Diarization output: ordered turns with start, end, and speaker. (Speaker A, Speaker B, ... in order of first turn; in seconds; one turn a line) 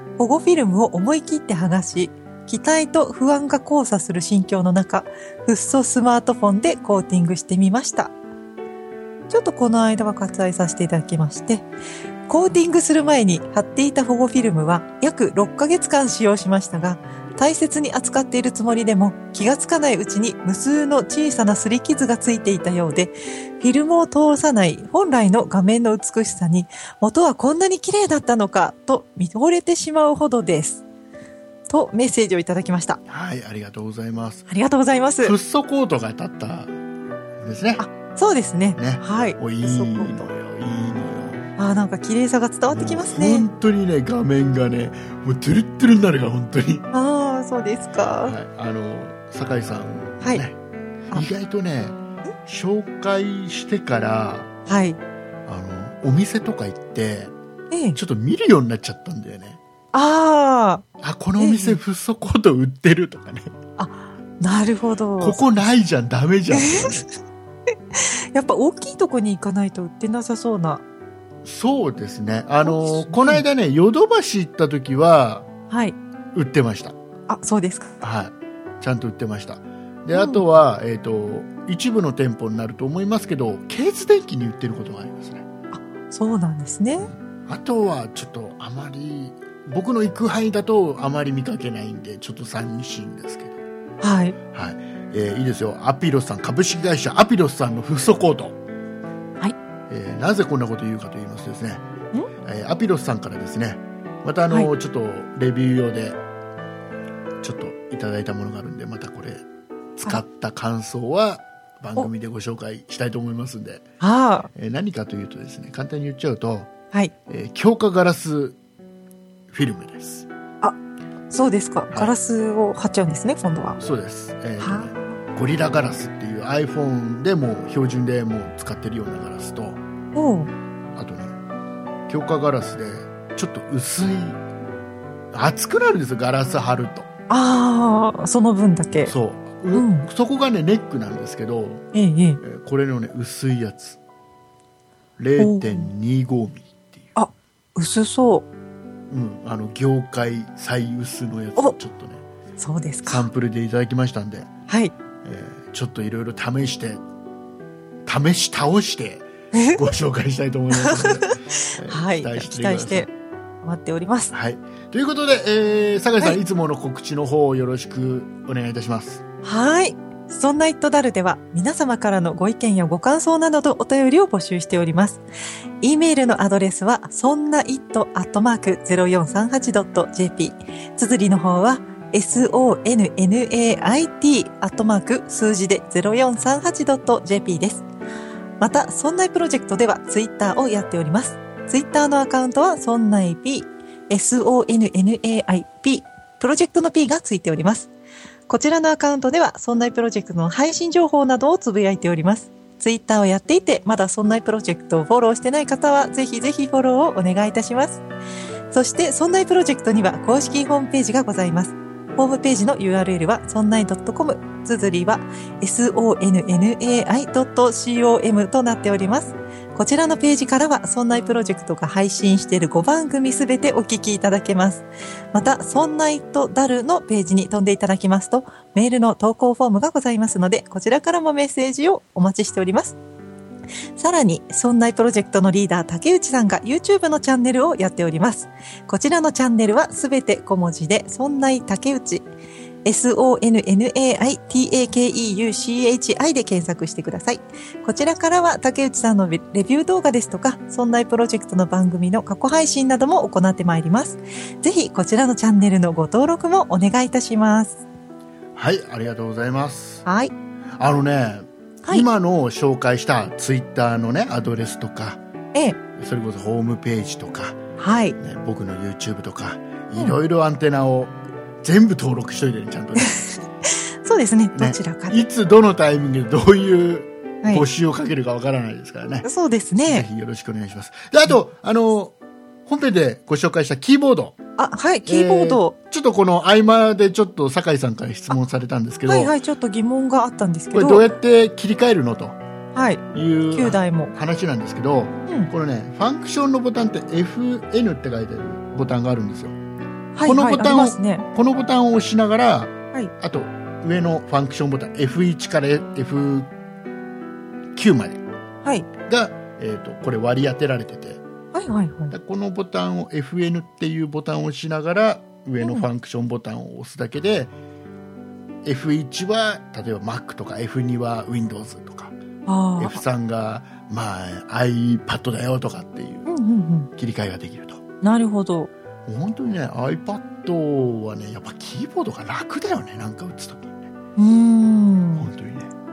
Speaker A: 0.2-8.1
Speaker A: 9.3-11.7
Speaker A: 12.3-30.8
Speaker A: 31.7-33.0
Speaker B: 33.1-34.5
Speaker A: 34.5-35.4
Speaker B: 35.2-36.8
Speaker B: 37.4-37.8
Speaker A: 37.8-40.3
Speaker B: 38.8-41.5
Speaker A: 41.6-43.5
Speaker B: 42.7-46.9
Speaker A: 46.9-48.3
Speaker B: 48.2-50.6
Speaker B: 51.1-54.5
Speaker A: 54.7-55.0
Speaker B: 55.5-57.3
Speaker A: 57.7-58.0
Speaker B: 58.0-59.6
Speaker A: 59.9-60.9
Speaker B: 61.0-63.5
Speaker A: 61.4-61.8
Speaker A: 63.8-65.4
Speaker B: 65.2-67.1
Speaker A: 66.5-67.1
Speaker A: 67.9-70.8
Speaker B: 71.5-75.5
Speaker A: 72.6-73.4
Speaker A: 75.7-76.0
Speaker B: 76.3-77.0
Speaker A: 77.3-78.0
Speaker B: 78.0-85.5
Speaker A: 80.1-80.4
Speaker A: 85.7-87.1
Speaker B: 87.0-93.6
Speaker A: 94.0-94.4
Speaker B: 94.5-98.6
Speaker B: 99.9-101.9
Speaker B: 102.4-106.2
Speaker B: 107.4-109.4
Speaker B: 110.0-113.9
Speaker A: 114.0-114.5
Speaker B: 114.5-116.7
Speaker B: 117.3-118.6
Speaker B: 119.5-120.3
Speaker A: 121.3-123.8
Speaker B: 123.8-129.8
Speaker A: 124.6-125.2
Speaker A: 130.2-130.5
Speaker B: 130.9-131.4
Speaker B: 132.1-134.4
Speaker B: 135.3-137.1
Speaker A: 137.3-139.1
Speaker B: 139.1-141.8
Speaker A: 139.7-140.1
Speaker A: 141.9-142.4
Speaker B: 142.4-144.0
Speaker B: 145.2-147.1
Speaker A: 145.4-145.9
Speaker A: 147.2-148.5
Speaker B: 149.1-152.2
Speaker A: 152.6-153.3
Speaker B: 153.1-154.5
Speaker A: 154.7-154.9
Speaker B: 155.2-157.0
Speaker B: 158.1-163.1
Speaker A: 159.5-159.8
Speaker A: 160.7-163.1
Speaker A: 163.6-164.3
Speaker B: 164.3-169.2
Speaker A: 169.4-175.2
Speaker A: 175.8-187.8
Speaker A: 188.6-197.9
Speaker A: 198.5-208.0
Speaker A: 208.7-233.0
Speaker A: 234.0-242.3
Speaker A: 242.8-257.8
Speaker B: 258.6-260.1
Speaker A: 260.1-260.3
Speaker B: 260.8-265.2
Speaker A: 265.5-265.8
Speaker B: 265.9-267.6
Speaker A: 267.8-268.2
Speaker B: 268.2-273.2
Speaker A: 273.0-275.2
Speaker B: 274.5-279.3
Speaker A: 279.2-280.1
Speaker B: 279.8-282.1
Speaker B: 282.7-284.4
Speaker A: 284.6-285.8
Speaker B: 285.1-289.4
Speaker A: 289.1-291.1
Speaker B: 290.7-292.4
Speaker A: 292.8-294.1
Speaker B: 293.1-299.6
Speaker A: 300.1-301.3
Speaker B: 300.2-306.5
Speaker B: 307.8-308.2
Speaker B: 309.1-311.2
Speaker A: 311.5-312.1
Speaker B: 312.1-317.5
Speaker B: 318.6-322.2
Speaker A: 322.5-323.0
Speaker B: 322.8-326.3
Speaker A: 326.3-326.9
Speaker B: 327.0-327.8
Speaker A: 328.0-328.7
Speaker B: 329.1-333.9
Speaker A: 334.2-335.3
Speaker B: 335.2-335.7